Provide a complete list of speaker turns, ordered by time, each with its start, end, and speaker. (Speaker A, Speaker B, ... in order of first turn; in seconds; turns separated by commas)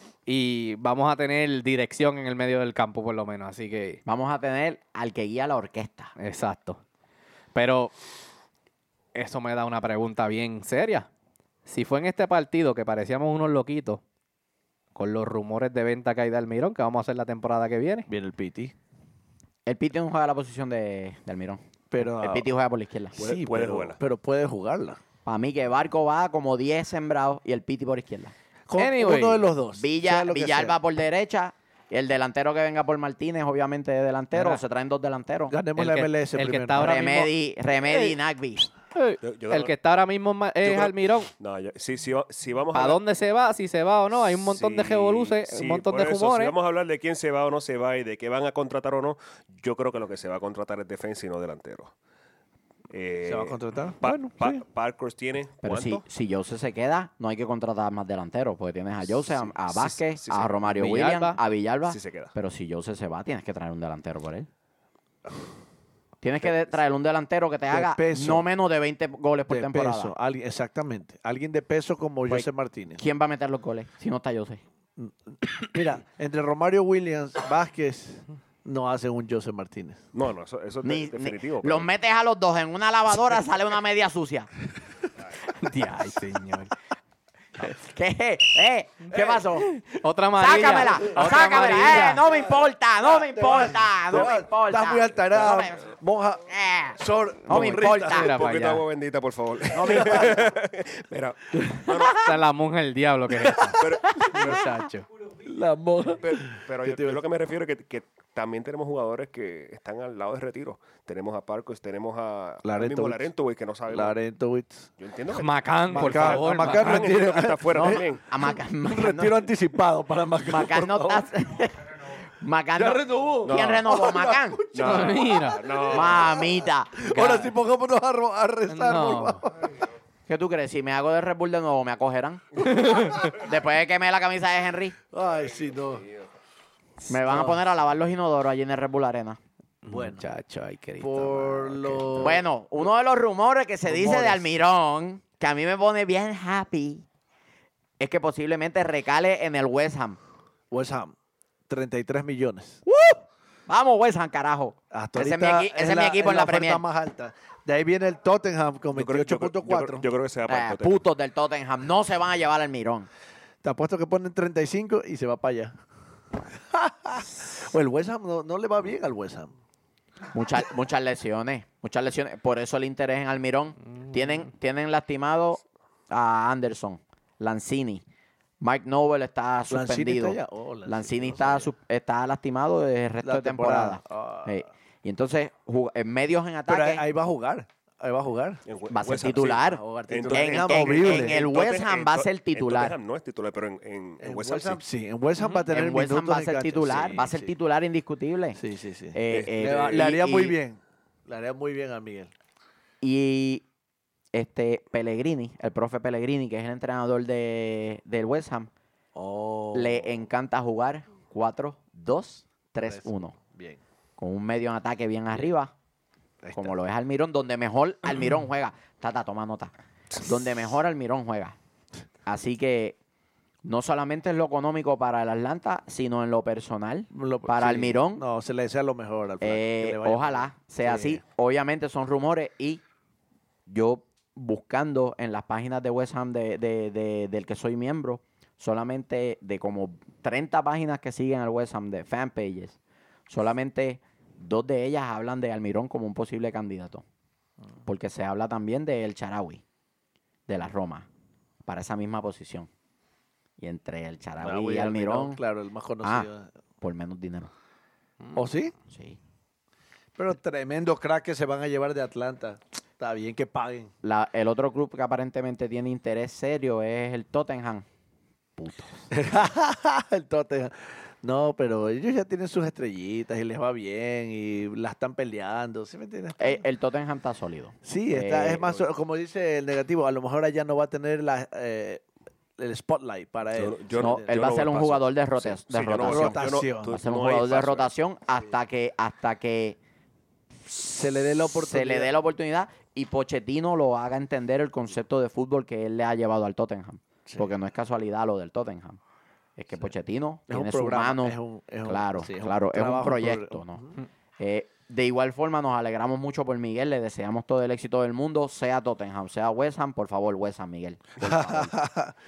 Speaker A: 0.3-4.0, Speaker B: 4.1-6.1, Speaker A: 6.2-6.8, Speaker A: 7.5-7.9, Speaker A: 9.1-11.1, Speaker A: 11.7-14.0, Speaker A: 14.9-18.1, Speaker C: 18.1-18.7, Speaker B: 19.7-23.2, Speaker C: 21.9-22.5, Speaker C: 23.1-25.0, Speaker D: 23.2-24.0, Speaker B: 25.2-28.3, Speaker C: 28.7-30.8, Speaker A: 28.8-29.5, Speaker B: 29.8-35.6, Speaker A: 34.3-34.6, Speaker C: 35.5-37.1, Speaker A: 35.8-37.3, Speaker B: 36.8-38.7, Speaker A: 37.9-38.2, Speaker A: 38.9-41.3, Speaker D: 39.2-39.7, Speaker D: 40.6-43.0, Speaker A: 42.7-46.5, Speaker D: 44.5-51.9, Speaker D: 52.9-56.0, Speaker C: 53.2-54.6, Speaker B: 55.6-64.5, Speaker D: 59.1-60.7, Speaker A: 60.8-61.4, Speaker D: 61.9-62.3, Speaker B: 66.2-70.1, Speaker C: 67.7-68.5, Speaker C: 69.5-73.0, Speaker B: 72.3-74.6, Speaker C: 75.0-80.1, Speaker D: 80.1-81.9, Speaker B: 80.8-84.5, Speaker A: 85.5-86.7, Speaker B: 87.6-89.7, Speaker A: 89.7-92.2, Speaker B: 90.4-95.9, Speaker C: 91.2-92.4, Speaker C: 93.1-96.5, Speaker B: 96.5-98.3, Speaker C: 97.0-98.3, Speaker A: 97.5-98.8, Speaker D: 98.3-102.3, Speaker B: 99.7-100.5, Speaker C: 99.9-100.2, Speaker A: 102.0-105.1, Speaker C: 103.5-104.3, Speaker D: 103.8-104.6, Speaker C: 105.4-107.2, Speaker D: 106.2-114.2, Speaker C: 112.6-113.3, Speaker C: 113.9-114.9, Speaker D: 115.0-118.2, Speaker A: 115.3-117.1, Speaker C: 115.9-121.3, Speaker B: 117.7-119.5, Speaker B: 120.5-124.6, Speaker C: 122.8-125.4, Speaker D: 123.4-123.9, Speaker D: 124.7-126.5, Speaker A: 124.8-125.7, Speaker B: 125.9-127.0, Speaker C: 127.0-129.7, Speaker A: 127.1-127.5, Speaker A: 128.7-129.4, Speaker B: 130.3-134.9, Speaker A: 132.7-133.2, Speaker C: 135.1-136.1, Speaker D: 135.3-136.3, Speaker B: 137.1-139.4, Speaker C: 137.2-137.6, Speaker A: 139.8-142.4, Speaker C: 139.9-140.3, Speaker C: 141.0-142.4, Speaker B: 142.2-147.1, Speaker C: 143.9-144.5, Speaker B: 148.0-150.2, Speaker C: 150.7-151.1, Speaker C: 151.7-152.8, Speaker B: 152.9-156.8, Speaker C: 154.9-160.1, Speaker D: 158.9-161.0, Speaker B: 160.5-163.1, Speaker C: 163.6-165.8, Speaker C: 166.7-169.5, Speaker B: 170.3-178.0, Speaker B: 178.6-187.1, Speaker C: 179.7-181.7, Speaker C: 183.2-184.7, Speaker C: 186.7-188.6, Speaker D: 188.7-194.8, Speaker B: 188.9-193.0, Speaker C: 189.7-191.4, Speaker C: 194.2-197.5, Speaker A: 195.4-195.7, Speaker B: 195.7-198.6, Speaker C: 198.6-202.3, Speaker B: 199.1-200.6, Speaker D: 199.3-200.1, Speaker B: 203.0-203.6, Speaker B: 204.3-208.7, Speaker C: 209.2-210.2, Speaker B: 209.7-213.3, Speaker C: 212.8-213.8, Speaker B: 214.2-215.7, Speaker C: 216.4-216.8, Speaker B: 216.6-221.6, Speaker B: 222.3-223.0, Speaker B: 223.6-228.2, Speaker C: 227.1-231.2, Speaker B: 229.4-232.8, Speaker B: 233.7-242.8, Speaker B: 243.3-247.0, Speaker B: 247.8-249.6, Speaker B: 250.5-251.1, Speaker B: 251.7-252.7, Speaker B: 253.6-255.4, Speaker C: 254.4-256.5, Speaker B: 256.0-256.3, Speaker B: 256.8-257.5, Speaker C: 258.3-258.8, Speaker B: 258.9-259.2, Speaker C: 260.2-263.9, Speaker B: 264.0-267.9, Speaker B: 268.6-269.1, Speaker C: 269.1-276.6, Speaker B: 276.4-278.7, Speaker C: 277.8-282.0, Speaker C: 282.6-284.3, Speaker D: 283.5-287.9, Speaker B: 284.0-289.8, Speaker C: 286.0-287.0, Speaker C: 290.7-292.1, Speaker B: 291.6-299.0, Speaker B: 299.6-311.7, Speaker C: 300.5-303.9, Speaker C: 311.2-312.1